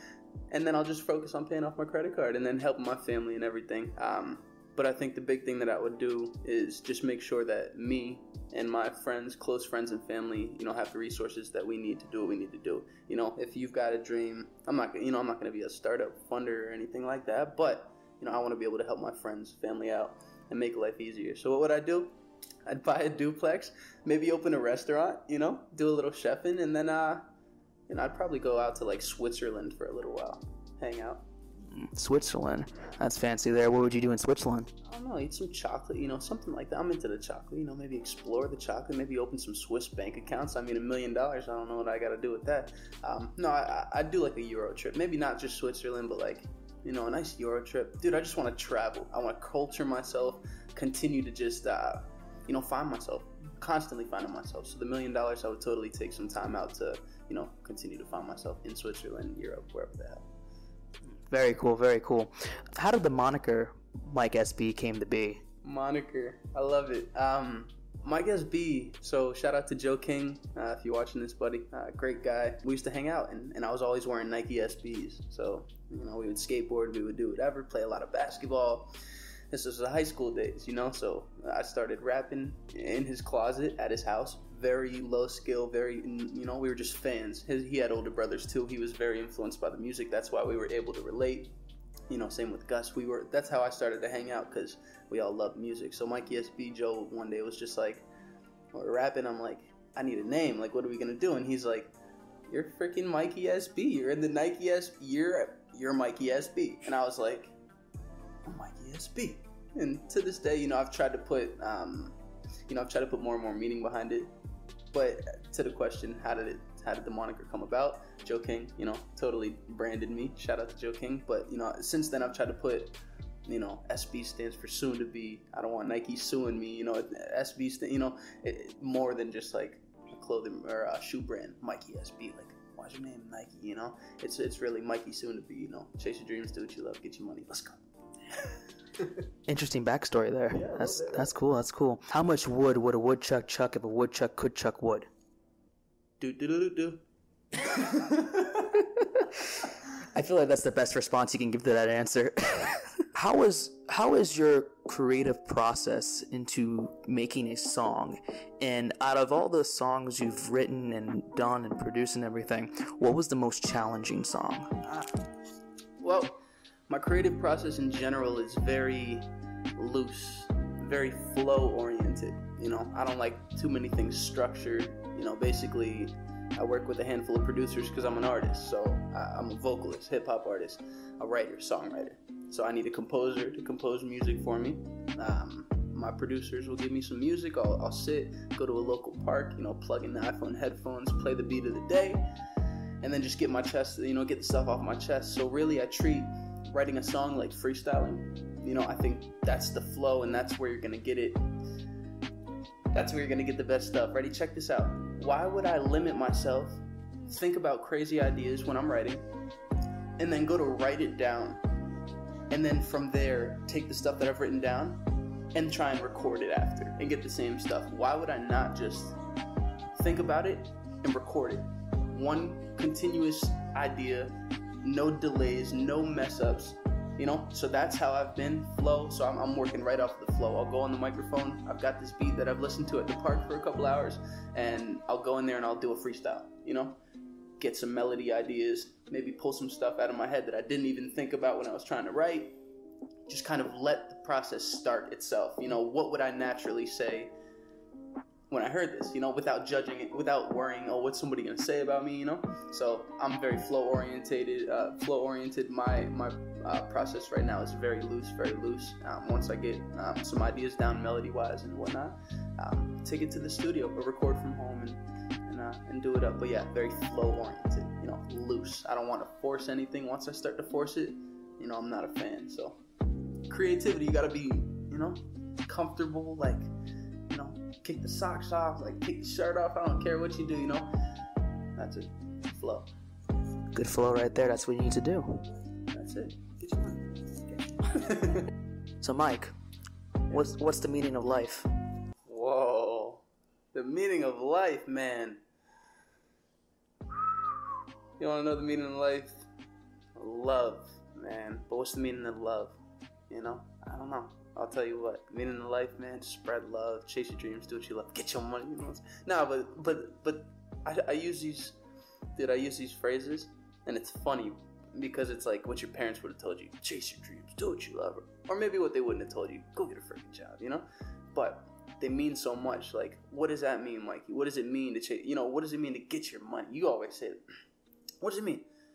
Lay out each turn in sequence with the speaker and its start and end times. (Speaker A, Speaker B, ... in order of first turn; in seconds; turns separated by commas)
Speaker A: 0.5-22.1, Speaker A: 22.6-27.2, Speaker A: 27.9-31.2, Speaker B: 31.7-34.7, Speaker A: 34.8-60.2, Speaker B: 61.3-65.4, Speaker A: 65.6-78.9, Speaker A: 79.5-91.5, Speaker A: 92.1-98.0, Speaker A: 98.7-101.9, Speaker A: 102.5-107.5, Speaker A: 108.5-112.2, Speaker A: 112.7-114.3, Speaker A: 114.9-137.8, Speaker A: 138.3-139.2, Speaker B: 139.5-145.1, Speaker A: 140.5-141.3, Speaker A: 146.2-147.0, Speaker A: 147.5-148.8, Speaker B: 148.8-149.4, Speaker B: 150.1-164.7, Speaker A: 164.8-165.1, Speaker A: 166.0-192.2, Speaker A: 193.0-201.4, Speaker A: 202.9-209.2, Speaker A: 210.2-211.6, Speaker A: 212.5-215.0, Speaker A: 215.5-219.2, Speaker A: 219.9-237.0, Speaker A: 237.6-242.6, Speaker A: 243.3-247.3, Speaker A: 248.5-272.8, Speaker A: 273.5-276.7, Speaker A: 277.3-280.9, Speaker A: 281.8-282.9, Speaker B: 283.7-285.4, Speaker A: 285.9-287.0, Speaker A: 287.5-288.5, Speaker B: 289.0-289.5, Speaker B: 290.3-291.7, Speaker A: 292.2-295.4, Speaker A: 298.2-299.5, Speaker A: 300.1-302.8, Speaker A: 303.3-311.8, Speaker A: 312.4-327.4, Speaker A: 328.2-328.7